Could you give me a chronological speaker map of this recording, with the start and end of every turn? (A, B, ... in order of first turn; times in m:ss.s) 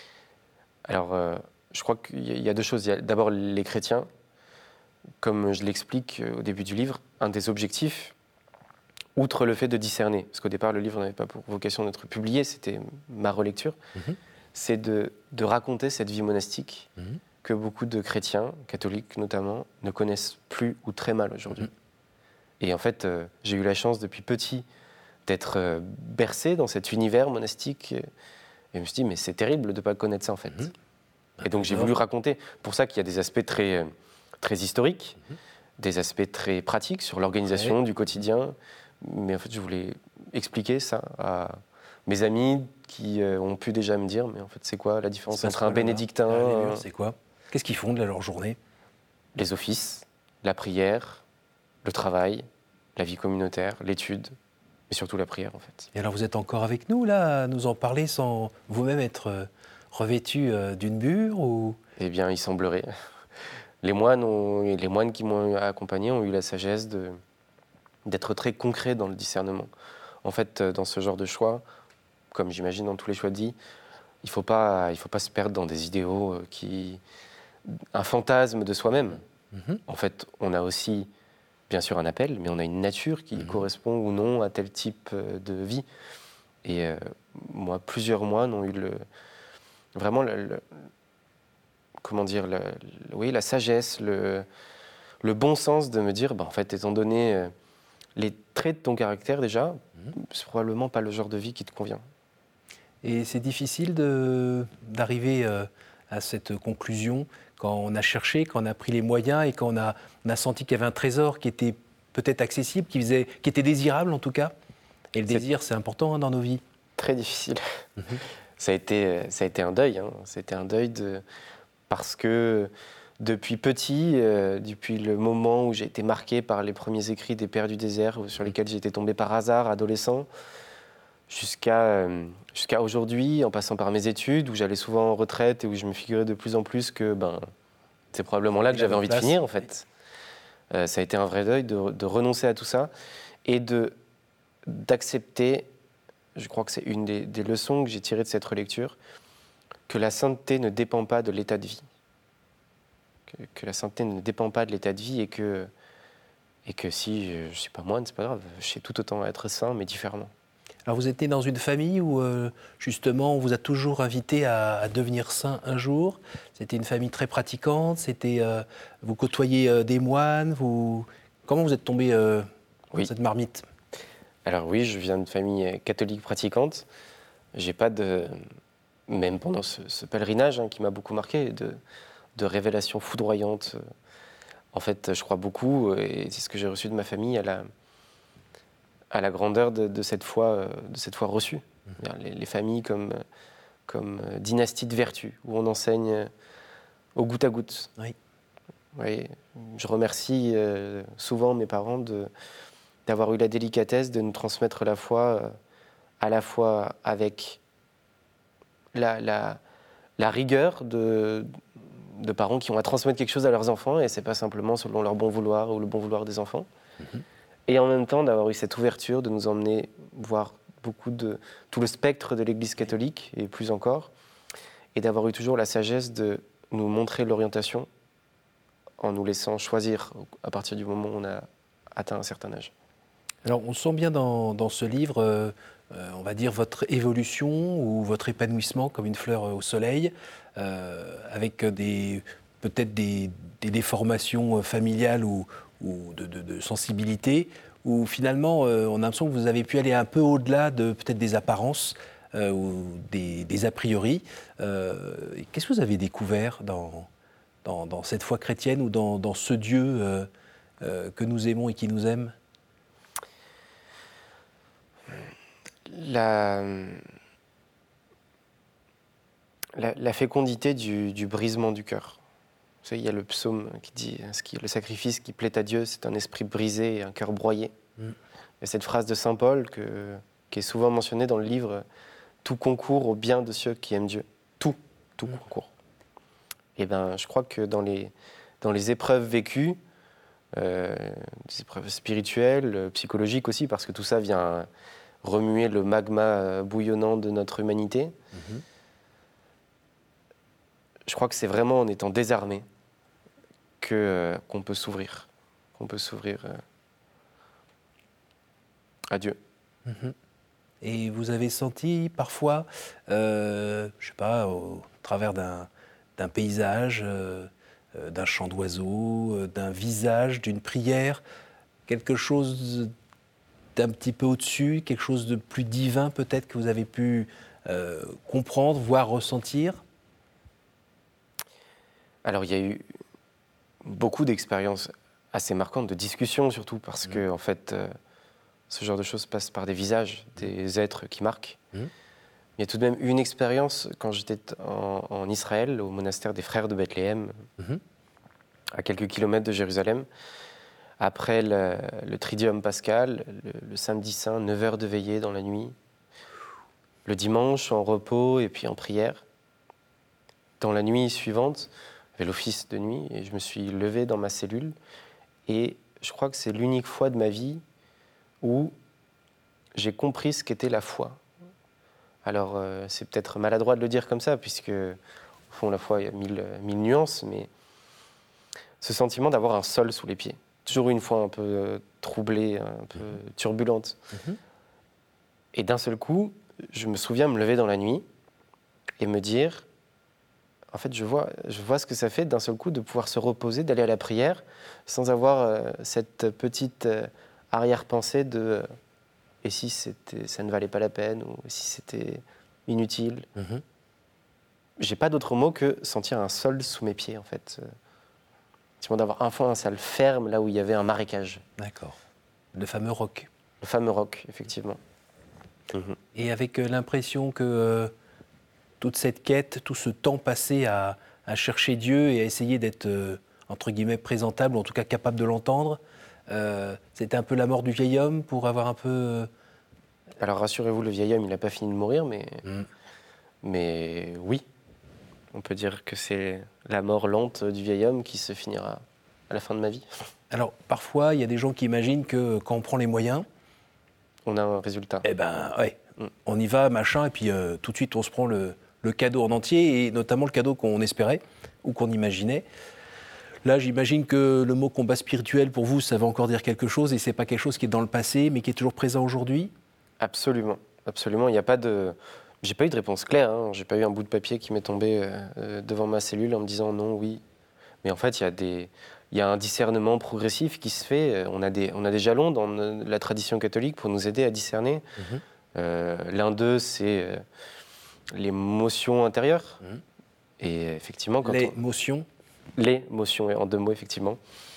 0:00.8-0:04.1 A
0:05.2-0:08.1 A
0:09.2-0:13.8 A
0:14.5-0:16.9 A
0:17.4-0:21.7 A
0:22.6-0:24.6 A
0:25.3-0:28.0 A
0:28.7-0:30.7 A
0:31.4-0:31.9 B
0:31.4-0:35.2 A
0:35.8-0:46.8 A
0:37.5-0:37.7 B
0:45.3-0:48.6 B
0:49.4-0:51.2 A
0:51.8-0:54.3 A
0:54.9-0:55.9 A
0:55.9-1:01.8 B
1:02.0-1:02.9 A
1:03.8-1:07.2 A
1:08.0-1:09.7 A
1:10.2-1:11.6 A
1:12.3-1:13.6 A
1:14.2-1:17.0 A
1:17.7-1:19.2 A
1:19.5-1:19.8 B
1:19.9-1:21.1 A
1:21.7-1:25.8 A
1:26.6-1:29.0 A
1:30.0-1:30.8 A
1:32.0-1:34.4 A
1:35.2-1:37.5 A
1:38.2-1:42.0 A
1:43.0-1:54.5 B
1:55.1-1:56.6 B
1:57.0-2:01.2 A
2:01.9-2:10.3 A
2:11.3-2:17.4 A
2:18.1-2:19.8 A
2:18.7-2:19.4 B
2:20.7-2:22.9 A
2:23.4-2:24.0 A
2:24.6-2:25.7 A
2:26.4-2:29.0 A
2:29.9-2:31.8 A
2:33.3-2:35.7 A
2:36.6-2:40.3 A
2:40.8-2:52.5 B
2:53.0-2:53.6 B
2:54.4-2:56.8 A
2:57.5-2:58.4 A
2:59.1-3:01.8 A
3:02.4-3:03.8 A
3:04.7-3:07.7 A
3:09.1-3:13.2 A
3:13.9-3:16.3 A
3:17.1-3:17.9 A
3:19.0-3:22.3 A
3:23.0-3:25.6 A
3:26.2-3:27.6 A
3:28.9-3:29.6 A
3:30.2-3:36.7 A
3:37.7-3:44.1 A
3:44.9-3:47.9 A
3:49.0-3:52.7 A
3:53.4-4:17.1 B
4:17.6-4:20.3 B
4:20.8-4:22.3 B
4:25.8-4:27.0 A
4:29.7-4:32.2 A
4:32.8-4:37.7 A
4:38.6-4:41.8 A
4:42.4-4:45.7 A
4:46.8-4:49.8 A
4:50.5-4:54.7 A
4:55.2-4:58.2 A
4:58.3-4:58.6 B
5:01.1-5:02.6 A
5:03.8-5:06.6 A
5:09.1-5:09.4 A
5:09.8-5:10.1 B
5:10.8-5:21.2 B
5:21.9-5:22.9 B
5:23.8-5:29.8 B
5:32.2-5:32.9 A
5:33.8-5:37.9 A
5:38.7-5:41.6 A
5:42.6-5:47.4 A
5:48.7-5:50.1 A
5:51.0-5:55.8 A
5:57.0-5:59.2 A
6:00.6-6:04.7 A
6:05.5-6:07.6 A
6:08.4-6:08.7 A
6:09.8-6:11.2 A
6:12.2-6:15.0 A
6:15.5-6:17.5 A
6:18.8-6:24.0 A
6:25.5-6:28.0 A
6:29.0-6:29.6 A
6:30.7-6:38.7 A
6:39.4-6:43.3 A
6:43.4-6:43.6 B
6:44.8-6:47.7 A
6:48.8-6:51.4 A
6:51.6-6:52.0 B
6:52.5-6:53.3 B
6:53.6-6:54.8 A
6:55.7-6:56.0 A
6:56.1-6:57.9 B
6:58.8-7:09.3 B
7:10.2-7:12.4 A
7:13.4-7:14.4 A
7:15.3-7:20.0 A
7:20.3-7:23.2 B
7:24.2-7:25.0 A
7:25.0-7:32.4 B
7:33.4-7:39.5 B
7:40.0-7:47.2 A
7:47.8-7:54.9 A
7:55.0-7:55.2 B
7:55.5-7:57.2 A
7:58.1-7:59.6 A
8:00.4-8:01.6 A
8:01.2-8:02.0 B
8:02.5-8:04.2 A